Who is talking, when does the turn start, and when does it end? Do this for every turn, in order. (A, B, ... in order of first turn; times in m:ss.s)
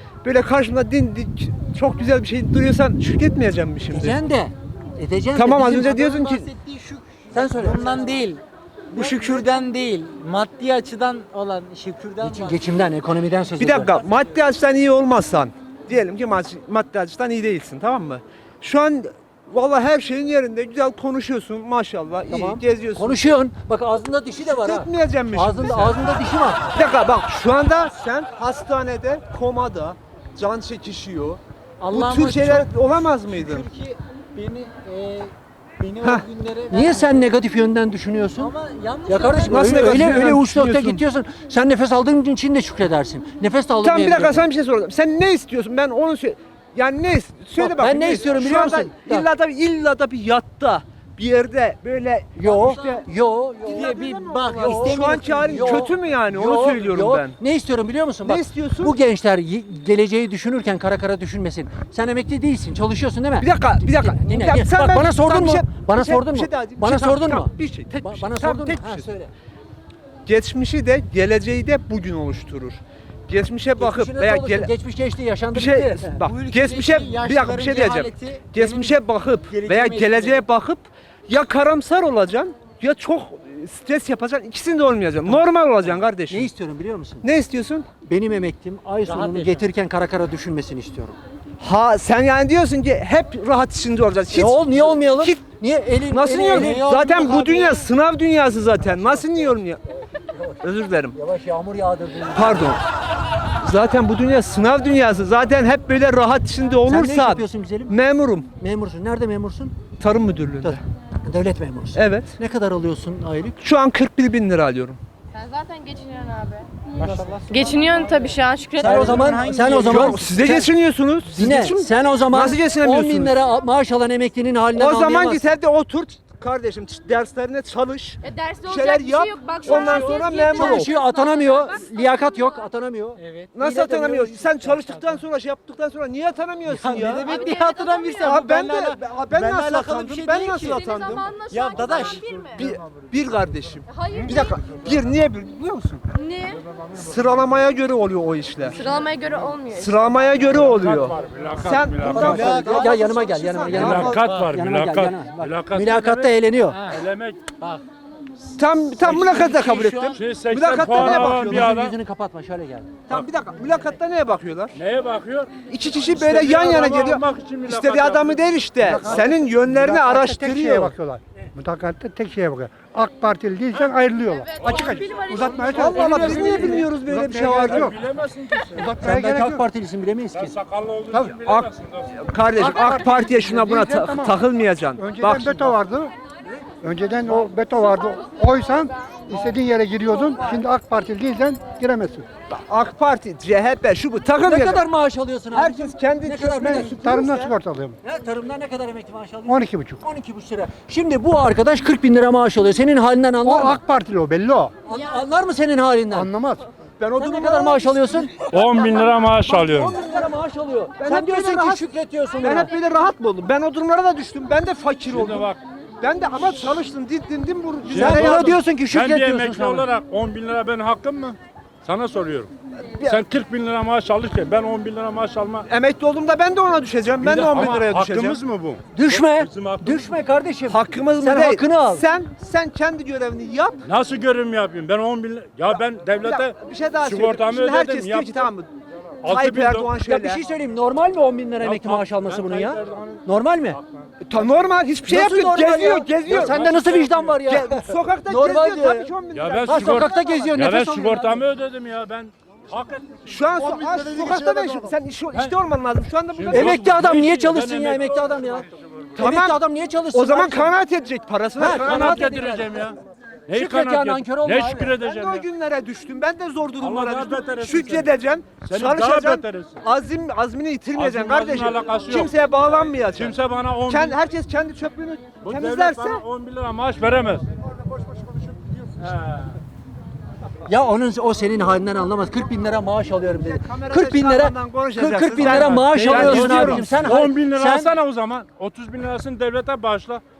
0:00.2-0:04.2 A
0:03.9-0:06.5 B
0:05.4-0:06.5 A
0:06.5-0:12.7 C
0:07.3-0:08.1 B
0:09.0-0:09.4 A
0:12.2-0:14.0 B
0:13.6-0:23.2 A
0:22.3-0:26.7 B
0:24.4-0:26.0 A
0:26.7-0:33.7 A
0:31.8-0:37.2 C
0:36.7-0:38.5 B
0:38.4-0:40.3 C
0:39.1-0:44.5 B
0:39.4-0:41.0 A
0:43.8-0:53.1 A
0:47.6-0:49.3 B
0:52.4-1:09.3 B
0:53.6-0:57.4 A
0:53.8-0:55.9 C
0:58.2-0:59.0 A
1:03.4-1:09.1 A
1:10.2-1:14.7 A
1:13.8-1:16.2 B
1:15.5-1:26.5 A
1:16.2-1:19.0 C
1:19.5-1:20.4 C
1:26.3-1:27.3 B
1:27.2-1:27.9 A
1:28.0-1:31.2 B
1:29.1-1:29.6 C
1:31.6-1:35.4 A
1:34.3-1:37.8 B
1:36.1-1:39.8 A
1:36.6-1:37.4 C
1:40.6-1:41.2 A
1:41.1-1:42.8 B
1:42.3-1:42.8 A
1:43.6-1:48.5 A
1:46.9-1:47.9 B
1:48.6-1:49.8 B
1:50.0-1:50.8 A
1:50.6-1:53.6 B
1:52.0-1:52.4 A
1:53.6-1:55.0 A
1:55.3-1:56.7 D
1:57.0-2:00.5 C
1:57.5-1:59.4 D
1:58.8-2:00.7 B
1:58.8-2:03.4 A
2:01.3-2:05.5 B
2:04.7-2:10.9 A
2:08.2-2:12.6 D
2:09.7-2:10.2 C
2:10.5-2:14.7 B
2:13.2-2:13.9 C
2:13.6-2:17.3 A
2:14.6-2:15.2 C
2:16.7-2:22.7 C
2:17.2-2:18.2 D
2:18.2-2:21.3 A
2:20.7-2:22.6 D
2:22.6-2:26.0 A
2:23.9-2:24.6 D
2:26.1-2:26.6 D
2:27.0-2:28.9 A
2:28.7-2:30.5 D
2:29.7-2:34.2 A
2:30.5-2:32.6 E
2:32.1-2:36.8 B
2:32.3-2:32.8 F
2:33.7-2:37.5 E
2:38.6-2:41.7 A
2:39.0-2:39.4 E
2:39.0-2:40.1 B
2:40.2-2:42.0 E
2:40.9-2:43.1 B
2:43.1-2:44.8 A
2:44.7-2:45.5 E
2:45.7-2:50.9 A
2:46.0-2:48.5 E
2:48.8-2:58.0 F
2:49.0-2:49.2 E
2:54.3-2:56.7 D
2:54.6-2:55.0 E
2:55.7-2:58.0 A
2:57.6-2:59.0 E
2:58.7-2:59.6 F
2:59.0-3:00.5 B
3:00.4-3:02.1 E
3:01.4-3:05.8 A
3:02.6-3:04.4 F
3:05.0-3:06.1 F
3:06.8-3:12.2 F
3:12.6-3:14.8 A
3:14.4-3:17.0 B
3:15.5-3:17.5 A
3:16.6-3:18.0 F
3:18.0-3:23.8 B
3:19.5-3:20.0 F
3:23.4-3:24.7 F
3:24.8-3:26.3 B
3:26.1-3:26.6 F
3:27.0-3:28.2 A
3:27.2-3:32.7 B
3:28.5-3:30.0 E
3:31.0-3:31.9 A
3:32.4-3:35.5 A
3:35.1-3:35.6 E
3:36.0-3:38.6 A
3:36.4-3:36.8 E
3:37.9-3:42.5 E
3:38.0-3:39.9 B
3:43.0-3:45.7 E
3:45.7-3:48.4 A
3:47.2-3:50.1 E
3:49.0-3:52.0 B
3:50.7-3:53.8 A
3:53.8-3:58.5 E
3:55.8-3:58.7 A
3:59.2-3:59.9 E
3:59.2-4:00.4 A
4:00.0-4:03.8 B
4:01.6-4:03.2 E
4:03.8-4:04.1 E
4:04.2-4:10.5 A
4:05.0-4:09.1 B
4:06.3-4:07.4 E
4:09.3-4:13.7 E
4:09.7-4:11.4 B
4:13.2-4:16.8 A
4:13.6-4:14.9 F
4:16.4-4:18.2 E
4:16.5-4:18.6 B
4:19.2-4:19.6 A
4:19.2-4:20.7 B
4:20.1-4:22.6 A
4:21.6-4:22.6 B
4:21.6-4:25.5 E
4:23.5-4:25.0 B
4:25.0-4:33.4 A
4:26.8-4:29.8 E
4:31.0-4:34.2 E
4:33.9-4:36.2 A
4:35.4-4:37.4 E
4:39.0-4:39.5 E
4:40.7-4:47.9 B
4:43.4-4:47.1 A
4:45.4-4:50.2 E